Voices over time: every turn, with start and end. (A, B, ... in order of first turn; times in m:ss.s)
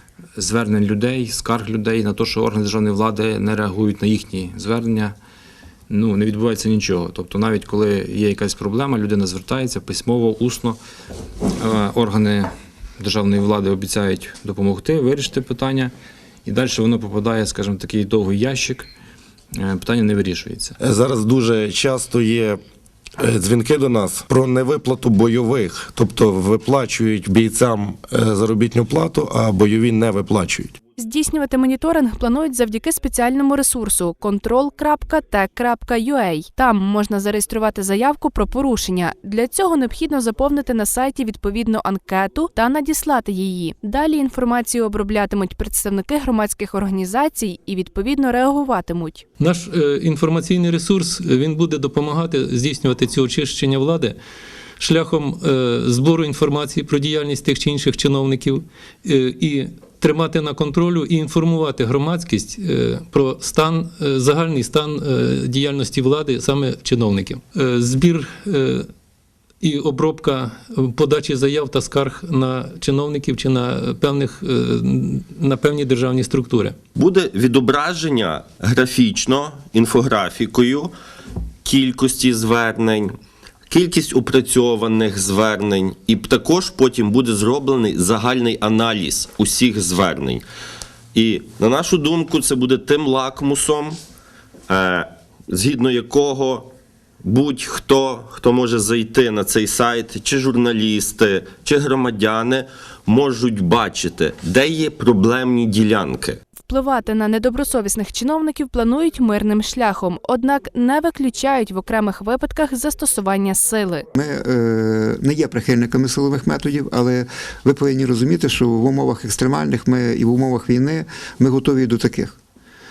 0:00.4-0:05.1 A
0:05.9-0:10.8 A
0:11.6-0:15.9 A
0:16.4-0:18.9 A
0:19.6-0:20.7 A
0:20.8-0:22.6 B
0:23.2-0:30.8 B
0:31.0-0:49.2 C
0:49.4-0:54.1 D
0:54.8-1:08.8 D
1:09.6-1:16.7 D
1:17.0-1:20.9 E
1:21.6-1:23.1 E
1:23.7-1:30.4 E
1:31.1-1:33.9 E
1:34.7-1:36.7 E
1:37.2-1:46.4 E
1:46.6-1:54.0 C
1:54.1-2:02.4 F